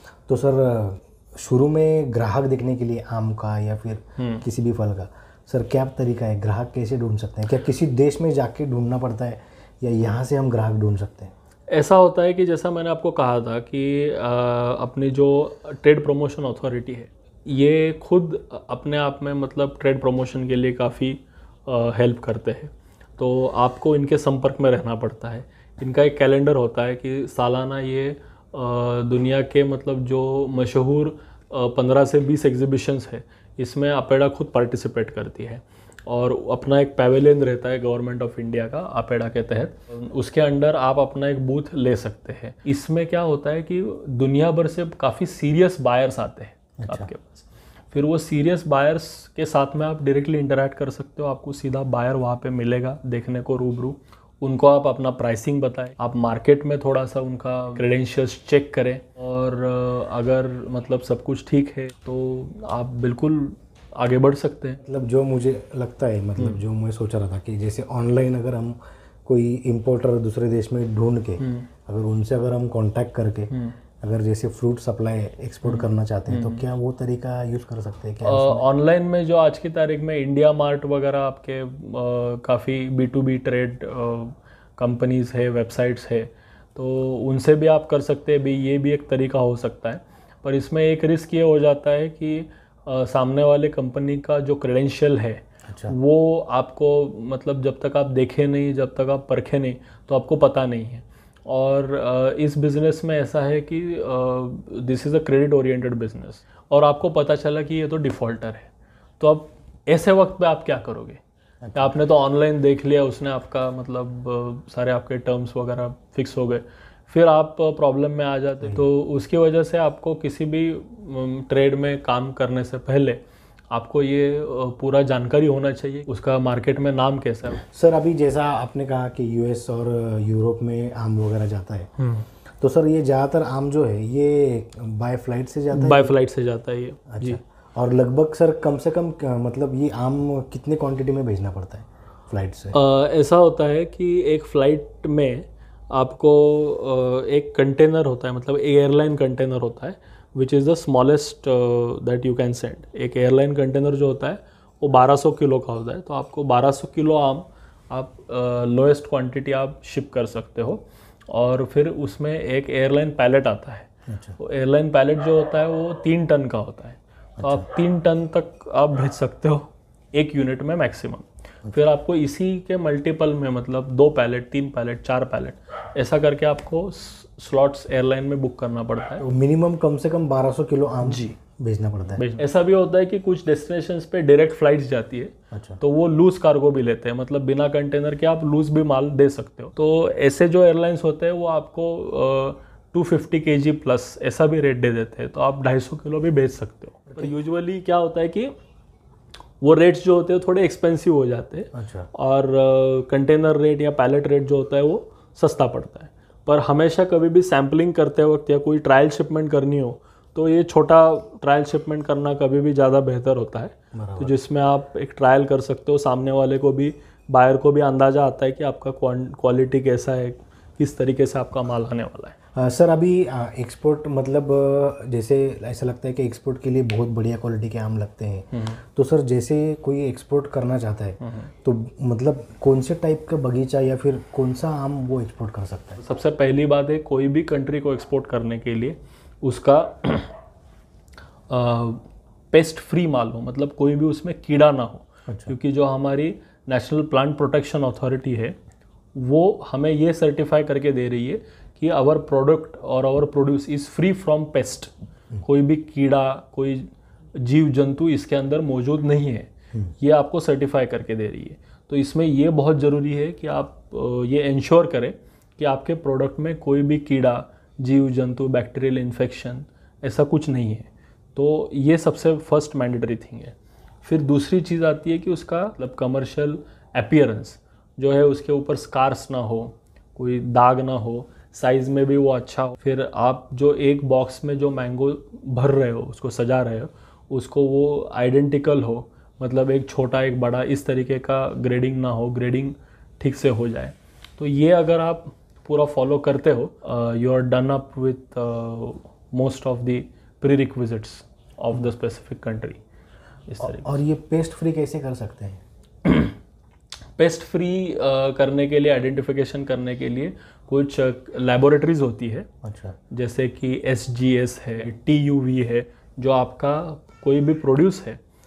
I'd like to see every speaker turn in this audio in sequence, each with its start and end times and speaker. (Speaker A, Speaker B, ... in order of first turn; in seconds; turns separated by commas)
Speaker A: 0.3-11.3, Speaker B: 4.2-4.4, Speaker B: 11.7-64.8, Speaker A: 46.8-47.1, Speaker A: 64.8-78.7, Speaker B: 71.4-71.7, Speaker B: 73.5-73.8, Speaker B: 75.6-76.6, Speaker B: 78.2-111.2, Speaker A: 95.7-95.9, Speaker A: 111.6-112.0, Speaker B: 111.7-127.6, Speaker A: 127.6-131.9, Speaker B: 132.0-132.2, Speaker A: 132.6-136.1, Speaker B: 135.7-137.4, Speaker A: 137.1-142.8, Speaker B: 142.7-179.2, Speaker A: 164.1-164.4, Speaker A: 167.4-167.7, Speaker A: 179.2-182.2, Speaker B: 181.0-181.3, Speaker B: 182.2-198.5, Speaker A: 185.5-185.8, Speaker B: 199.6-222.3, Speaker A: 201.7-202.1, Speaker A: 213.9-214.3, Speaker A: 222.5-236.0, Speaker B: 228.5-228.8, Speaker B: 231.2-231.5, Speaker B: 236.0-240.3, Speaker B: 241.5-248.6, Speaker A: 245.3-245.5, Speaker B: 249.1-254.9, Speaker B: 255.4-302.8, Speaker B: 303.5-303.9, Speaker A: 303.6-305.6, Speaker B: 306.1-306.3, Speaker B: 307.2-312.5, Speaker A: 312.6-312.9, Speaker B: 313.1-318.2